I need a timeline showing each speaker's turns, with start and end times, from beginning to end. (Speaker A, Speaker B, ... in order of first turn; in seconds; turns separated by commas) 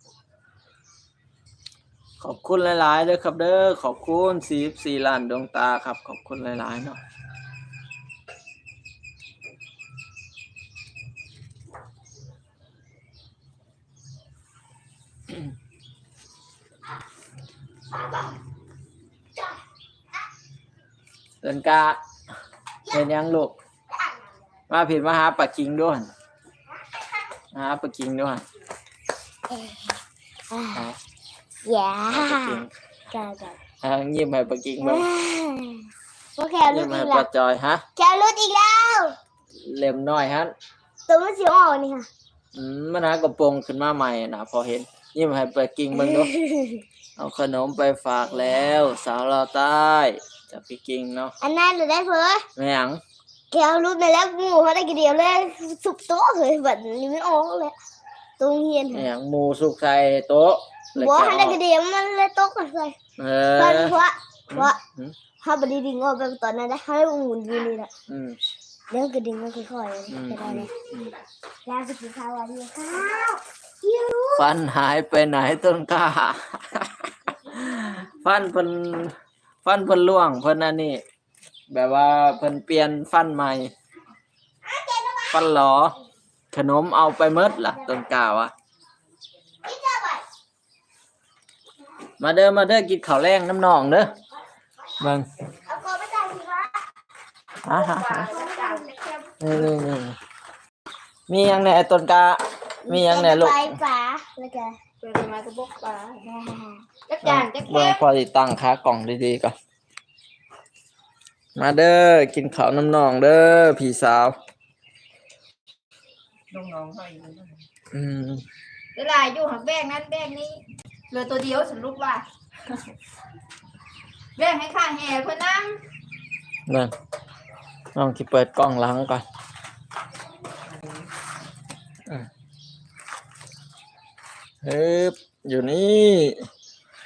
Speaker A: 2.2-7.0, Speaker A: 21.4-22.0, Speaker A: 22.9-23.6, Speaker A: 24.7-26.1, Speaker A: 27.5-28.4, Speaker B: 29.5-29.8, Speaker B: 30.5-30.9, Speaker B: 31.6-33.6, Speaker A: 32.1-32.7, Speaker A: 33.8-35.1, Speaker B: 34.8-37.3, Speaker A: 36.7-37.8, Speaker B: 38.0-39.1, Speaker A: 39.6-40.5, Speaker B: 41.1-42.1, Speaker A: 42.5-46.3, Speaker B: 45.9-46.8, Speaker A: 47.2-51.3, Speaker B: 51.4-52.4, Speaker A: 52.5-53.0, Speaker B: 53.5-57.8, Speaker B: 58.4-59.1, Speaker A: 58.9-61.6, Speaker B: 61.0-63.0, Speaker A: 63.2-64.0, Speaker B: 63.5-64.8, Speaker A: 64.5-65.2, Speaker B: 65.4-67.9, Speaker A: 68.1-68.4, Speaker B: 68.9-70.7, Speaker A: 70.1-71.1, Speaker B: 71.7-73.4, Speaker B: 73.9-74.2, Speaker A: 74.3-81.0, Speaker A: 81.7-83.7, Speaker B: 84.6-85.4, Speaker A: 85.3-86.0, Speaker A: 86.5-88.5, Speaker B: 89.6-90.2, Speaker A: 92.2-94.1, Speaker A: 95.0-95.2, Speaker B: 95.7-96.8, Speaker A: 97.6-98.3, Speaker C: 97.7-99.2, Speaker B: 98.3-98.8, Speaker A: 99.4-100.2, Speaker A: 101.3-103.8, Speaker B: 102.8-104.8, Speaker C: 105.0-106.2, Speaker B: 106.2-106.8, Speaker C: 107.0-108.0, Speaker A: 107.2-109.5, Speaker A: 111.5-114.3, Speaker C: 116.5-117.6, Speaker A: 117.9-118.4, Speaker C: 119.0-122.2, Speaker C: 124.4-125.8, Speaker A: 127.9-129.2, Speaker A: 134.6-136.5